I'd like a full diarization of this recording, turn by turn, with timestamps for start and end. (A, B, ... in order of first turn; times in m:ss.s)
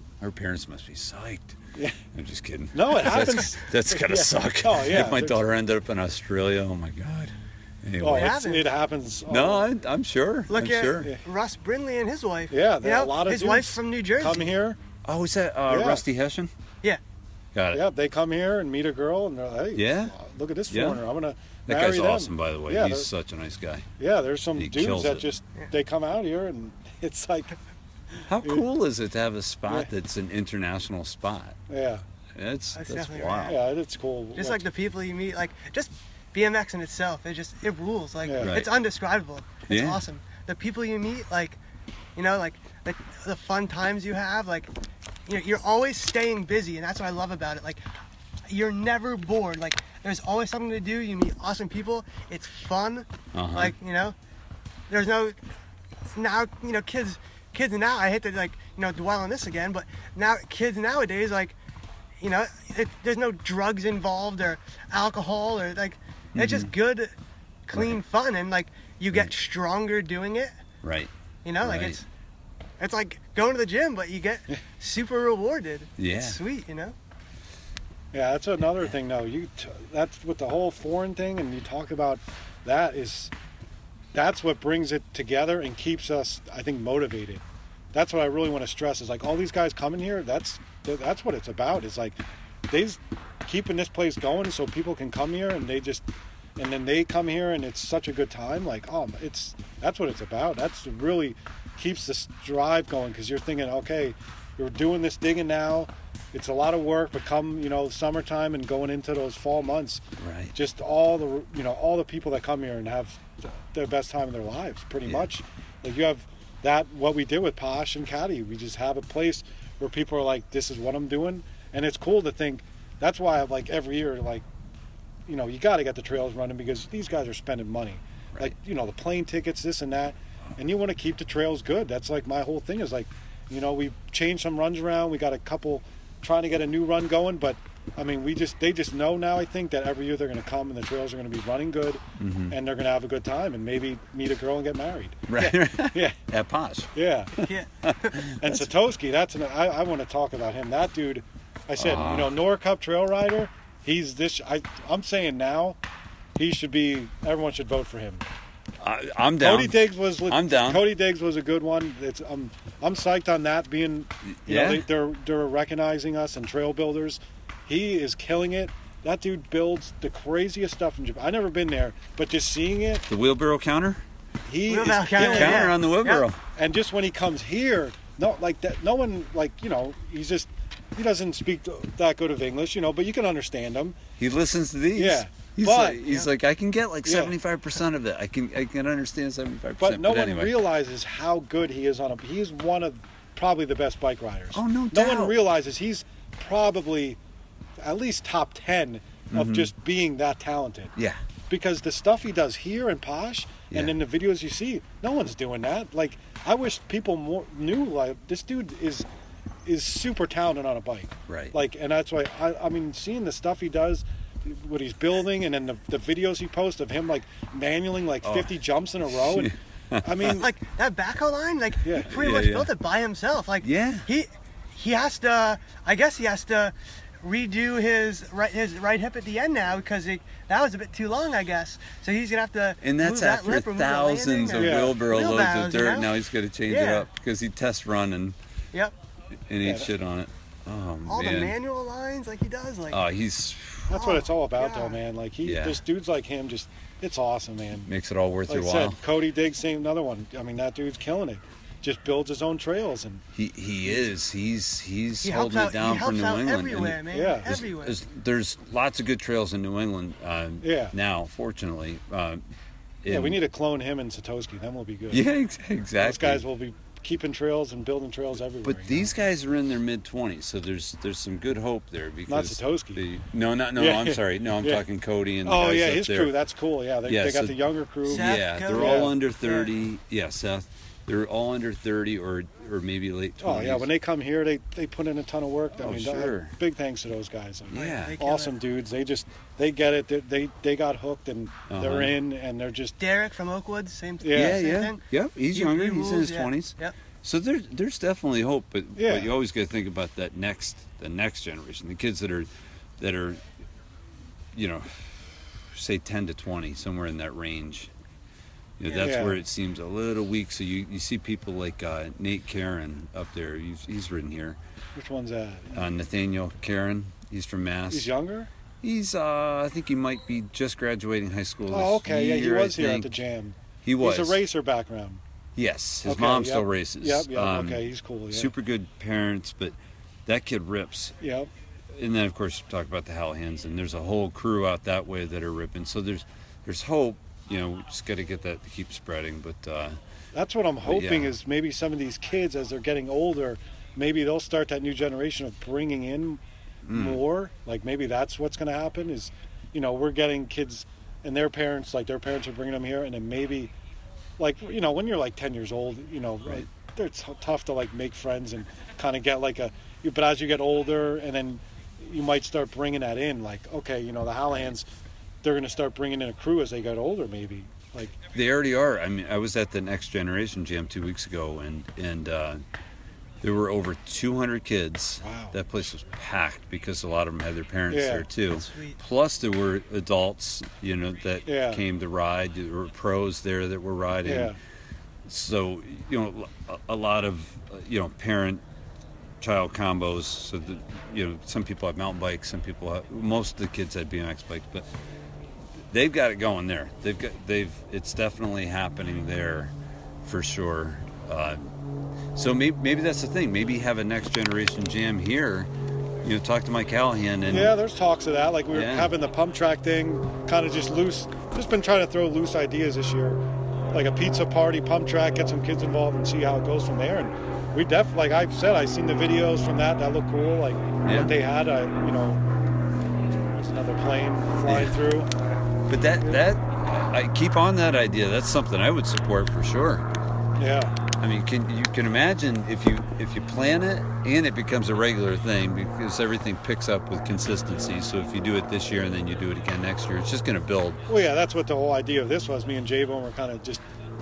0:00.2-0:01.6 A
0:02.1-0:08.4 A
0:02.7-0:05.4 B
0:08.0-0:09.7 B
0:08.0-0:08.7 C
0:09.3-0:11.1 A
0:10.5-0:14.5 C
0:12.5-0:14.8 B
0:15.0-0:16.5 A
0:15.7-0:16.0 B
0:17.5-0:17.8 A
0:17.7-0:23.1 B
0:19.7-0:20.1 A
0:20.7-0:21.0 A
0:21.6-0:23.9 A
0:24.0-0:27.6 B
0:24.6-0:25.3 A
0:28.2-0:31.6 A
0:31.7-0:32.0 B
0:32.3-0:33.6 A
0:32.7-0:33.6 C
0:33.4-0:34.6 B
0:34.3-0:41.6 C
0:38.2-0:38.6 B
0:38.4-0:38.7 A
0:39.7-0:40.0 A
0:42.2-0:44.7 C
0:45.2-0:47.8 C
0:48.5-0:54.1 C
0:53.3-0:53.7 A
0:54.9-0:55.4 C
0:56.1-1:01.6 C
1:02.2-1:07.1 C
1:06.3-1:06.7 A
1:07.7-1:10.5 C
1:07.7-1:08.0 A
1:10.8-1:11.1 A
1:11.4-1:12.0 C
1:11.6-1:12.0 A
1:12.8-1:16.9 C
1:16.0-1:16.4 A
1:18.1-1:23.3 B
1:24.1-1:32.2 B
1:32.7-1:50.0 B
1:50.2-1:50.5 A
1:50.5-2:04.4 B
2:05.3-2:26.2 B
2:22.2-2:22.5 A
2:25.3-2:28.6 A
2:26.9-2:27.3 B
2:27.4-2:28.2 C
2:28.4-2:35.8 B
2:31.8-2:32.3 A
2:36.4-2:38.2 B
2:38.8-2:40.8 A
2:39.4-2:53.0 B
2:44.3-2:44.8 A
2:53.1-2:54.0 A
2:54.4-2:55.8 B
2:54.7-2:56.2 C
2:55.2-2:56.4 A
2:56.6-3:04.0 B
3:04.2-3:10.5 A
3:05.0-3:06.0 B
3:07.0-3:07.4 B
3:09.8-3:17.2 B
3:14.5-3:15.4 A
3:17.8-3:20.9 B
3:19.3-3:19.7 A
3:21.5-3:29.1 B
3:23.7-3:24.0 A
3:29.6-3:40.5 B
3:31.3-3:31.6 A
3:38.2-3:38.5 A
3:39.2-3:40.4 A
3:40.2-3:56.1 C
3:41.8-3:42.1 B
3:42.0-3:42.7 A
3:43.6-3:44.1 A
3:52.8-3:58.4 A
3:54.5-3:55.0 B
3:56.7-3:57.1 C
3:59.5-4:01.6 A
3:59.6-3:59.9 B
4:01.1-4:03.0 C
4:02.9-4:03.9 A
4:03.9-4:07.9 B
4:03.9-4:05.0 C
4:05.4-4:05.8 A
4:07.9-4:09.0 A
4:08.5-4:13.2 B
4:13.3-4:22.4 A
4:15.2-4:18.0 C
4:17.1-4:17.5 B
4:20.6-4:20.9 B
4:23.0-4:23.4 A
4:23.1-4:25.2 B
4:25.1-4:26.4 A
4:26.0-4:29.1 B
4:28.6-4:36.3 A
4:32.3-4:33.0 B
4:33.8-4:34.8 B
4:35.4-4:39.1 B
4:37.0-4:43.9 A
4:38.0-4:39.7 C
4:43.4-4:53.0 B
4:45.8-4:46.5 A
4:47.7-4:48.2 A
4:47.7-4:48.5 C
4:51.7-4:52.1 A
4:53.0-4:55.0 C
4:54.2-4:54.7 B
4:54.3-5:03.4 A
4:55.5-4:56.9 C
4:59.0-4:59.3 B
5:04.5-5:05.2 A
5:05.7-5:07.9 A
5:08.8-5:14.6 A
5:08.9-5:09.1 C
5:09.0-5:09.4 B
5:14.9-5:15.9 B
5:15.7-5:18.1 A
5:17.9-5:18.5 B
5:18.8-5:23.2 A
5:21.7-5:25.2 B
5:23.8-5:24.4 A
5:25.6-5:29.7 A
5:26.0-5:28.5 B
5:30.2-5:31.2 A
5:31.2-5:31.5 B
5:31.9-5:40.0 A
5:40.3-5:53.7 B
5:40.8-5:41.3 A
5:46.8-5:47.2 A
5:54.4-6:04.9 B
6:05.4-6:08.2 B
6:08.3-6:12.6 A
6:13.4-6:24.6 A
6:15.2-6:15.6 B
6:17.9-6:18.3 B
6:18.5-6:19.0 C
6:21.4-6:21.8 B
6:24.2-6:24.6 B
6:25.2-6:28.6 A
6:29.4-6:34.8 A
6:35.9-6:41.7 A
6:42.3-6:45.7 A
6:46.2-6:47.7 A
6:47.5-6:53.4 B
6:48.7-6:49.1 A
6:53.9-7:02.4 B
7:01.0-7:01.3 A
7:03.5-7:05.3 B
7:04.6-7:05.0 A
7:05.9-7:10.0 A
7:10.6-7:11.0 B
7:11.2-7:21.0 A
7:21.1-7:23.8 B